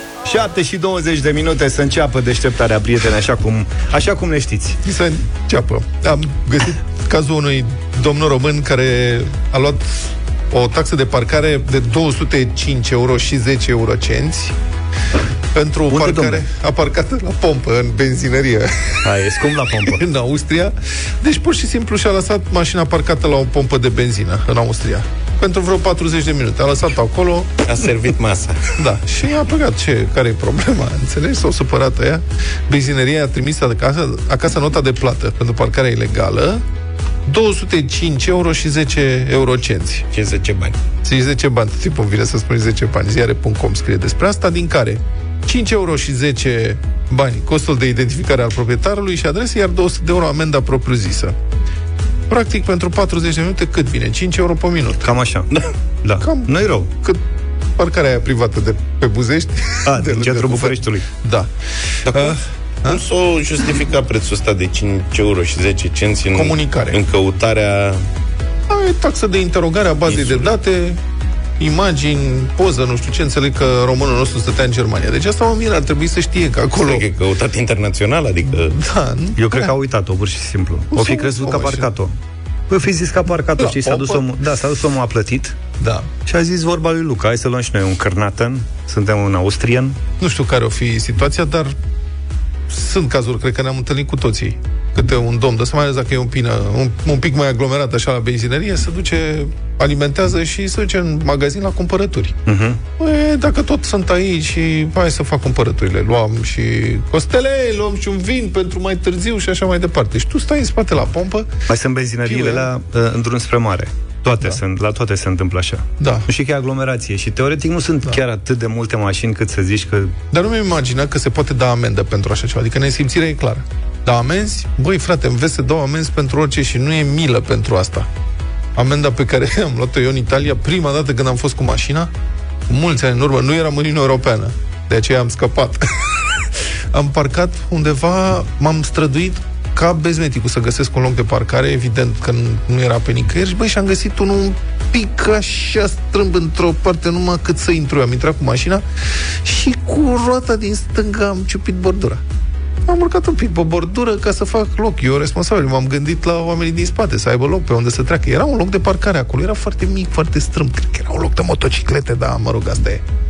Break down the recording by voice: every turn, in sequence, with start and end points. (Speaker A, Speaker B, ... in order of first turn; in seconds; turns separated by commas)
Speaker A: 0.2-4.8, Speaker B: 4.8-14.6, Speaker B: 15.5-19.0, Speaker A: 15.9-16.5, Speaker A: 19.1-20.0, Speaker B: 19.9-27.5, Speaker C: 27.6-28.7, Speaker B: 28.8-36.6, Speaker B: 37.3-40.1, Speaker C: 40.1-40.8, Speaker B: 41.0-51.4, Speaker B: 52.3-55.1, Speaker A: 55.0-55.5, Speaker A: 56.0-56.9, Speaker B: 56.2-57.2, Speaker B: 57.7-61.5, Speaker A: 59.9-61.0, Speaker C: 62.1-68.0, Speaker B: 62.1-63.0, Speaker B: 66.3-67.0, Speaker B: 68.7-71.0, Speaker C: 70.1-70.5, Speaker B: 71.6-77.1, Speaker C: 76.8-78.8, Speaker B: 78.5-79.7, Speaker A: 79.3-82.1, Speaker B: 80.9-81.9, Speaker A: 82.7-85.6, Speaker B: 83.6-84.2, Speaker B: 85.8-86.1, Speaker A: 86.2-90.0, Speaker B: 90.2-91.7, Speaker B: 92.7-102.4, Speaker A: 102.5-102.8, Speaker B: 103.0-111.5, Speaker A: 111.7-120.2, Speaker B: 112.2-112.7, Speaker B: 116.0-116.3, Speaker B: 120.3-128.1, Speaker B: 128.8-132.1, Speaker B: 132.7-148.8, Speaker B: 149.4-152.2, Speaker B: 152.9-163.0